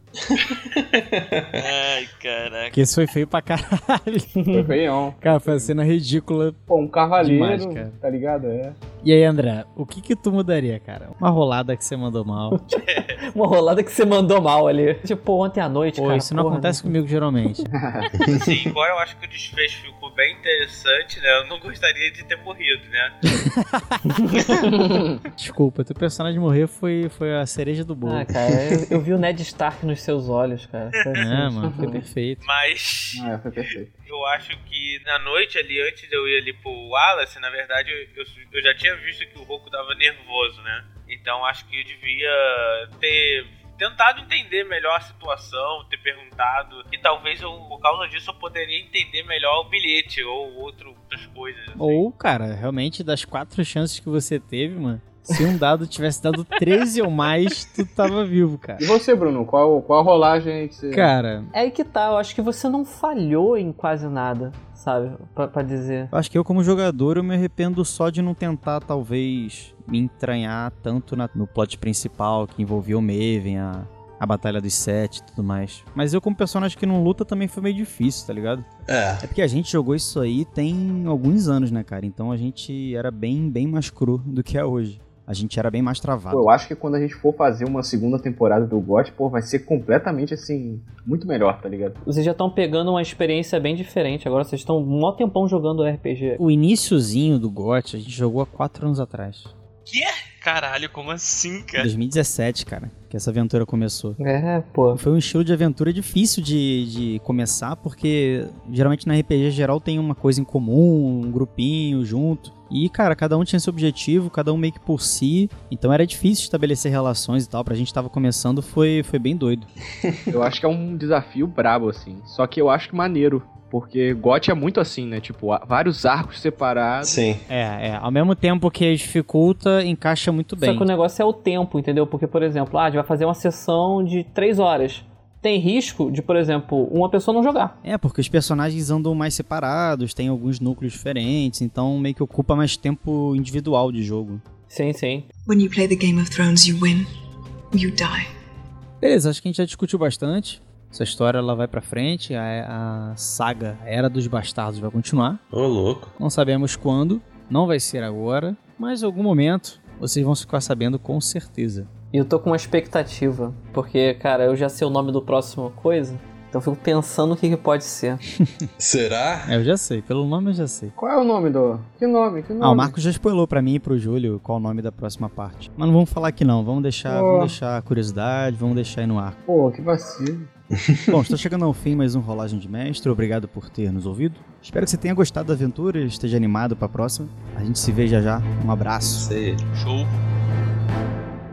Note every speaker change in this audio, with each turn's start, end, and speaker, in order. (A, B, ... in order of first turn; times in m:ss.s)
0:00.2-0:01.6 A
0:01.5-0:02.8 B
0:02.7-0:04.4 C
0:04.5-0:05.7 D
0:05.2-0:06.6 C
0:06.7-0:08.8 D
0:07.2-0:08.0 C
0:09.0-0:12.6 C
0:12.5-0:16.9 E
0:12.9-0:13.2 F
0:16.0-0:17.7 C
0:17.7-0:18.1 D
0:18.1-0:18.7 A
0:18.2-0:23.1 F
0:23.3-0:24.0 C
0:24.2-0:24.5 E
0:24.6-0:25.2 D
0:25.4-0:28.8 C
0:28.0-0:32.0 E
0:31.1-0:32.4 C
0:31.6-0:31.9 D
0:32.4-0:33.3 F
0:33.2-0:33.9 D
0:34.1-0:52.0 F
0:51.8-0:58.9 C
0:58.8-1:01.1 D
1:00.9-1:01.5 C
1:01.5-1:06.1 E
1:06.1-1:18.7 C
1:18.9-1:19.2 A
1:19.2-1:26.5 C
1:26.3-1:32.0 D
1:32.0-1:36.4 E
1:36.4-1:39.5 C
1:40.4-1:41.9 B
1:41.8-1:44.2 C
1:44.2-1:45.0 E
1:44.9-1:59.7 C
2:00.3-2:07.2 D
2:07.0-2:07.4 A
2:07.5-2:10.9 C
2:10.6-2:17.8 E
2:17.8-2:24.4 C
2:24.7-2:25.3 E
2:25.4-2:27.0 G
2:27.7-2:28.3 G
2:29.0-2:35.4 C
2:35.5-2:36.1 A
2:36.2-2:41.9 C
2:42.1-2:48.2 E
2:48.4-2:48.7 C
2:48.8-2:49.5 A
2:49.4-2:50.9 C
2:51.0-2:52.9 D
2:52.6-2:59.4 C
2:57.1-2:57.5 D
2:59.5-3:00.5 D
3:00.8-3:01.1 A
3:01.1-3:09.3 C
3:09.2-3:09.6 A
3:09.7-3:10.1 B